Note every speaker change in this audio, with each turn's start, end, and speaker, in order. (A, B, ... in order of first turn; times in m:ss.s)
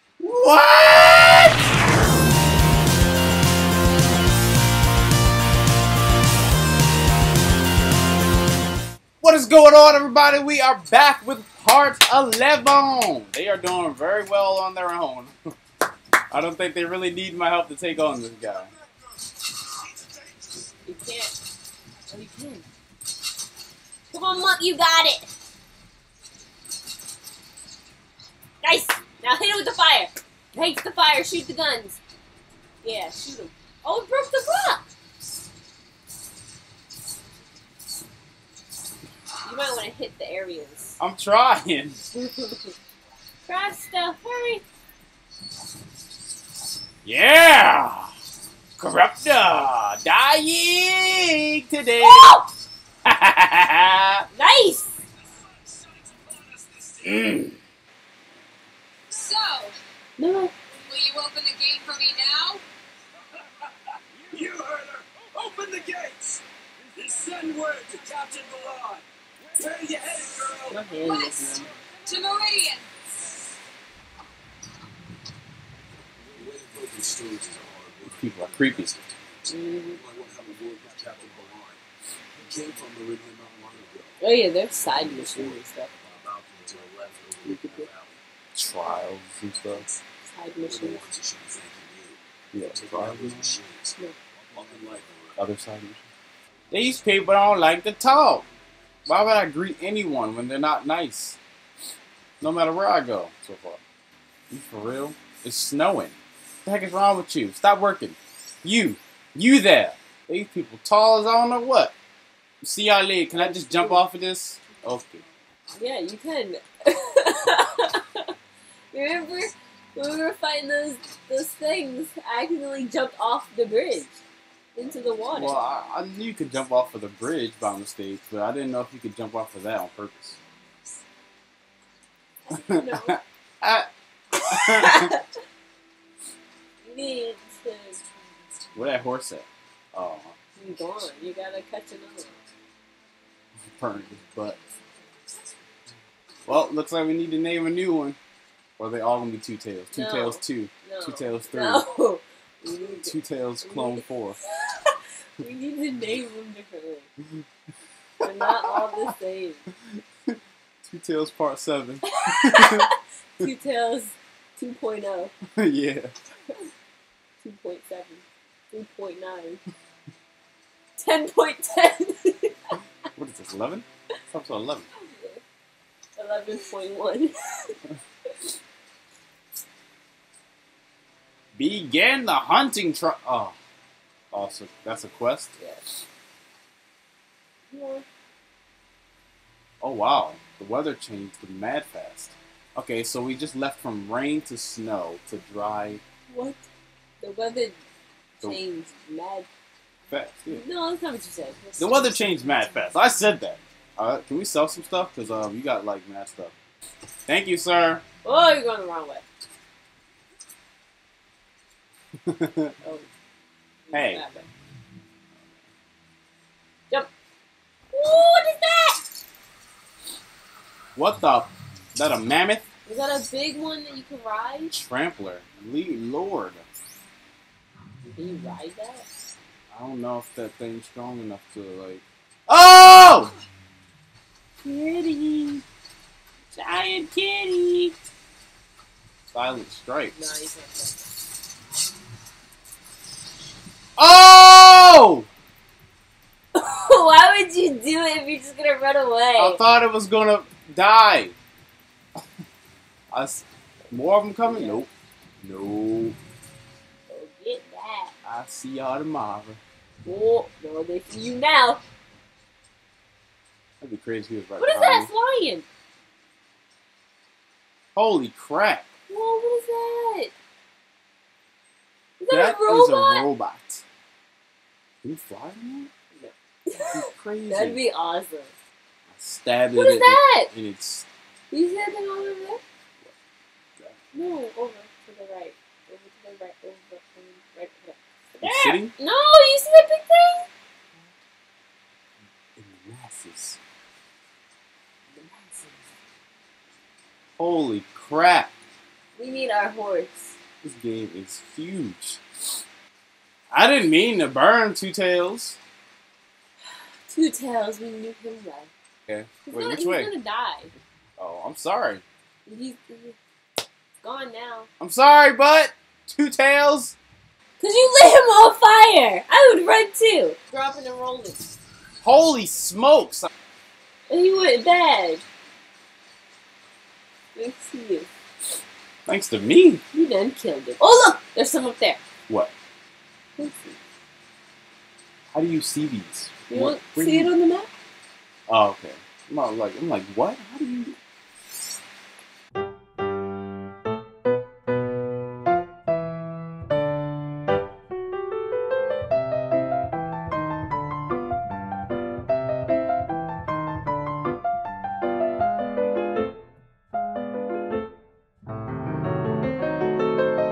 0:00.2-0:01.6 A
0:09.2-0:15.3 A
0:16.3-0:18.7 A
0:20.9-0:21.4 B
0:22.1-0:22.7 B
0:24.1-0:25.3 B
0:28.6-0:32.0 B
0:32.8-0:34.9 B
0:39.4-0:41.0 B
0:41.0-0:42.0 A
0:42.2-0:42.7 B
0:43.5-0:44.6 B
0:47.0-0:48.1 A
0:48.8-0:52.4 A
0:52.0-0:52.5 B
0:53.0-0:54.3 A
0:54.3-0:54.9 B
0:57.0-0:57.6 A
0:59.1-0:59.8 C
1:00.2-1:00.5 B
1:00.8-1:02.6 C
1:04.3-1:06.4 D
1:07.0-1:09.0 D
1:09.6-1:10.8 D
1:10.7-1:11.7 B
1:10.7-1:11.6 A
1:11.0-1:13.0 C
1:16.3-1:19.2 D
1:18.1-1:18.9 A
1:19.5-1:20.0 B
1:19.9-1:21.8 D
1:22.4-1:28.2 D
1:24.2-1:25.9 B
1:27.5-1:27.8 B
1:28.6-1:29.9 A
1:29.6-1:31.0 B
1:30.6-1:34.0 D
1:32.5-1:33.6 A
1:34.5-1:35.4 D
1:35.4-1:36.0 A
1:36.7-1:38.4 A
1:39.1-1:41.4 A
1:42.4-1:43.8 A
1:44.5-1:51.9 A
1:52.6-1:55.2 A
1:53.3-1:54.0 B
1:55.8-1:58.3 B
1:58.9-2:04.2 B
2:04.8-2:05.6 B
2:05.3-2:10.4 A
2:12.4-2:13.2 B
2:12.6-2:15.1 A
2:14.6-2:15.2 B
2:16.8-2:18.0 B
2:18.7-2:20.3 A
2:20.6-2:22.4 B
2:23.8-2:24.6 A
2:26.5-2:28.2 A
2:28.8-2:31.8 A
2:29.9-2:37.1 B
2:32.9-2:34.4 A
2:38.2-2:39.7 B
2:38.2-2:39.0 A
2:39.9-2:42.9 A
2:42.1-2:45.3 B
2:45.6-2:46.1 A
2:47.4-2:49.6 B
2:51.0-2:52.7 B
2:53.2-2:54.9 A
2:54.9-2:55.4 B
2:56.2-2:57.8 B
3:01.6-3:03.6 A
3:04.3-3:05.6 A
3:05.6-3:05.8 B
3:07.7-3:08.1 B
3:09.8-3:16.0 A
3:16.3-3:16.7 B
3:17.2-3:17.8 B
3:18.4-3:19.5 B
3:20.1-3:20.6 A
3:20.5-3:22.7 B
3:21.8-3:26.5 A
3:27.3-3:28.0 A
3:28.2-3:29.2 B
3:32.2-3:32.7 A
3:32.8-3:33.1 B
3:33.9-3:34.5 B
3:33.9-3:34.2 A
3:37.9-3:39.0 B
3:41.0-3:42.6 A
3:42.9-3:44.7 B
3:44.7-3:46.6 A
3:48.1-3:49.1 B
3:49.7-3:53.3 A
3:54.6-3:55.6 B
3:56.5-3:57.9 B
3:59.3-4:00.2 A
4:00.1-4:01.1 B
4:04.0-4:05.3 A
4:06.6-4:09.6 B
4:09.4-4:11.4 A
4:13.1-4:14.9 A
4:14.4-4:14.8 B
4:15.4-4:16.2 A
4:17.1-4:18.1 B
4:18.2-4:19.6 A
4:20.0-4:21.8 B
4:23.8-4:25.1 A
4:24.6-4:25.7 B
4:28.0-4:28.9 A
4:29.1-4:30.3 B
4:32.2-4:33.3 B
4:32.3-4:33.8 A
4:35.0-4:35.9 A
4:36.1-4:38.5 B
4:36.9-4:37.8 A
4:39.1-4:41.1 A
4:39.7-4:40.5 B
4:41.5-4:42.6 B
4:44.1-4:50.4 B
4:48.4-4:48.9 A
4:52.6-4:53.6 A
4:55.1-4:55.9 B
4:57.4-4:58.5 A
4:59.2-5:00.4 B
5:00.6-5:02.2 A
5:03.5-5:05.6 A
5:06.7-5:08.7 B
5:09.1-5:10.1 A
5:09.5-5:10.7 B
5:11.2-5:12.0 A
5:12.5-5:13.2 B
5:14.0-5:14.7 B
5:14.8-5:17.0 A
5:17.6-5:21.5 B
5:22.0-5:23.3 A
5:24.1-5:25.2 B
5:27.4-5:28.1 B
5:29.1-5:29.8 A
5:29.9-5:32.0 B
5:33.4-5:33.8 B
5:35.3-5:37.3 A
5:36.5-5:37.7 B
5:38.5-5:41.0 A